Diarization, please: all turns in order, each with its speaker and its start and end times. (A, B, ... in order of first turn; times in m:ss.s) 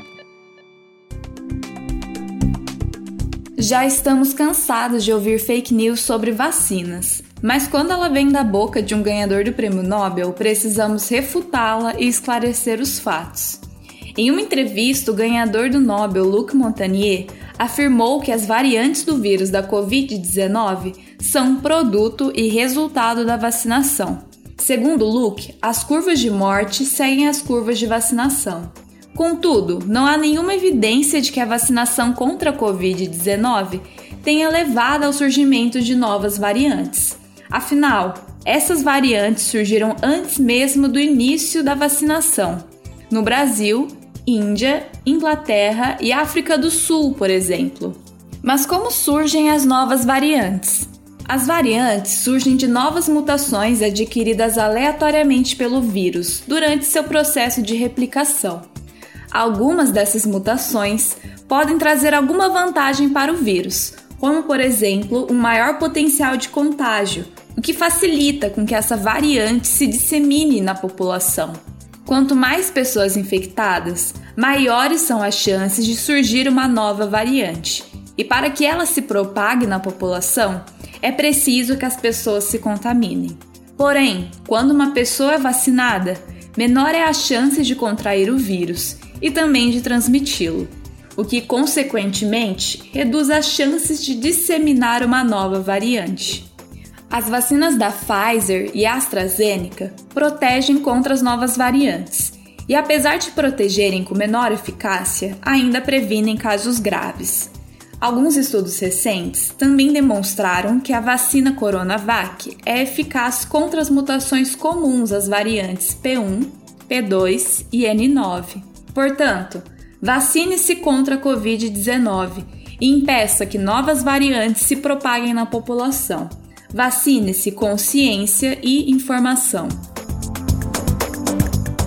0:03.6-0:13.6 A
0:14.1-0:58.7 A
0:59.3-1:36.5 A
1:37.1-2:09.8 A